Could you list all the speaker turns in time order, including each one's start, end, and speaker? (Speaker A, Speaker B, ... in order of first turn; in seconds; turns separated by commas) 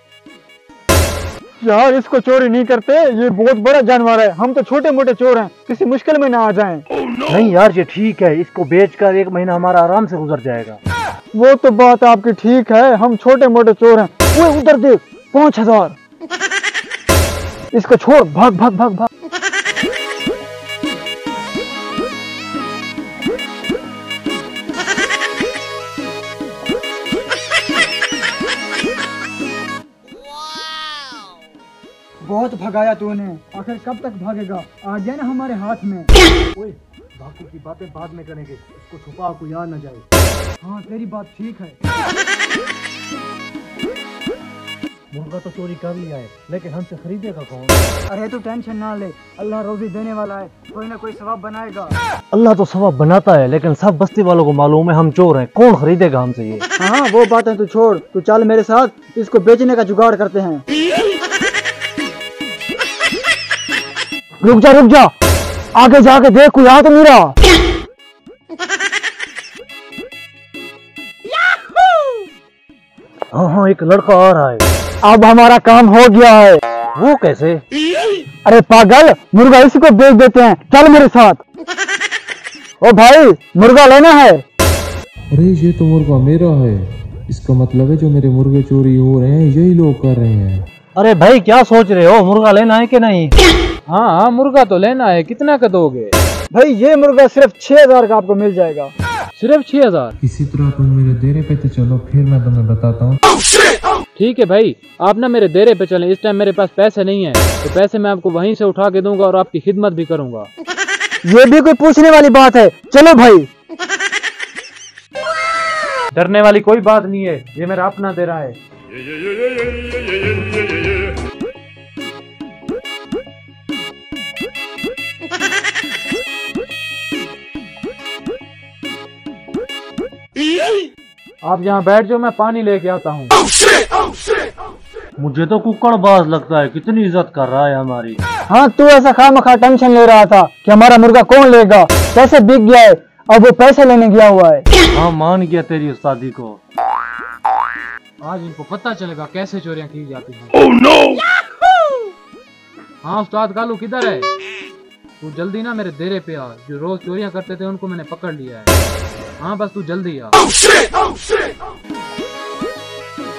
Speaker A: 1.6-6.8, Speaker B: 7.3-10.8, Speaker A: 11.3-15.9, Speaker A: 17.7-19.1, Speaker A: 32.2-36.1, Speaker B: 36.5-40.0, Speaker A: 40.6-41.8, Speaker B: 45.1-47.8, Speaker A: 48.1-52.0, Speaker B: 52.3-56.6, Speaker A: 56.8-60.6, Speaker A: 64.4-65.1, Speaker A: 65.8-67.3, Speaker B: 73.3-74.7, Speaker A: 75.0-76.6, Speaker B: 76.9-77.6, Speaker A: 78.4-81.4, Speaker A: 82.8-84.4, Speaker C: 85.3-90.6, Speaker B: 91.0-93.3, Speaker D: 93.9-96.1, Speaker A: 96.5-98.9, Speaker D: 99.3-100.1, Speaker C: 100.2-103.2, Speaker D: 104.1-110.5, Speaker A: 111.2-113.5, Speaker D: 116.1-118.6, Speaker D: 131.4-133.3, Speaker B: 135.2-138.2, Speaker A: 138.5-144.7, Speaker B: 144.9-146.6, Speaker D: 148.2-150.6, Speaker D: 153.0-154.3, Speaker D: 155.2-158.7, Speaker D: 159.4-160.4